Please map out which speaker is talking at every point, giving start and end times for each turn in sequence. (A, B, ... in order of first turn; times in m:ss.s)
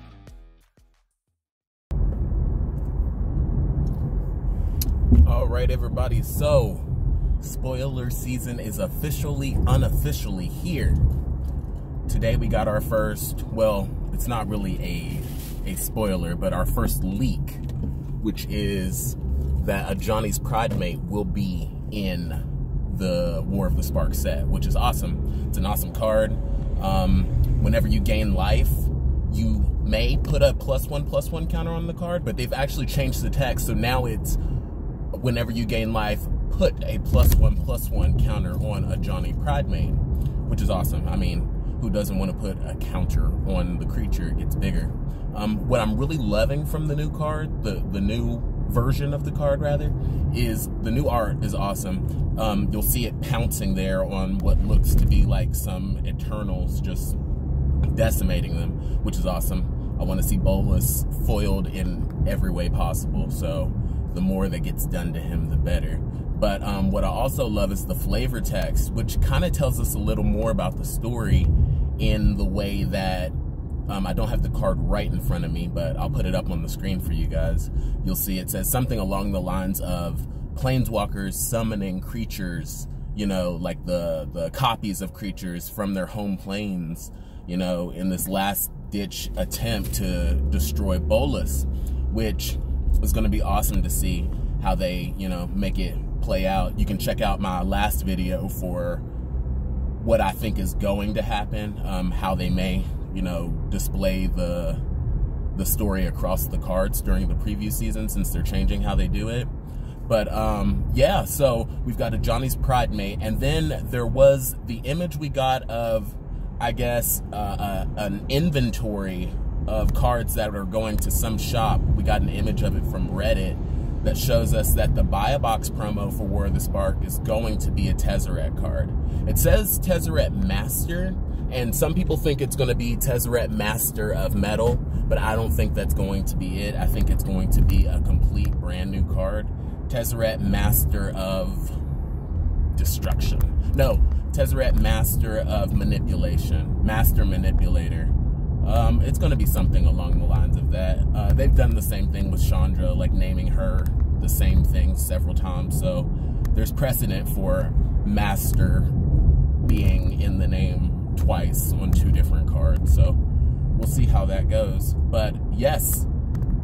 0:05.2-0:11.1 A
0:12.1-0:17.6 A
0:18.2-0:34.4 A
0:35.1-0:57.2 A
0:57.8-1:13.4 A
1:13.9-1:39.0 A
1:40.0-1:44.8 A
1:45.5-1:49.5 A
1:50.0-2:21.8 A
2:22.7-2:39.0 A
2:39.6-2:46.1 A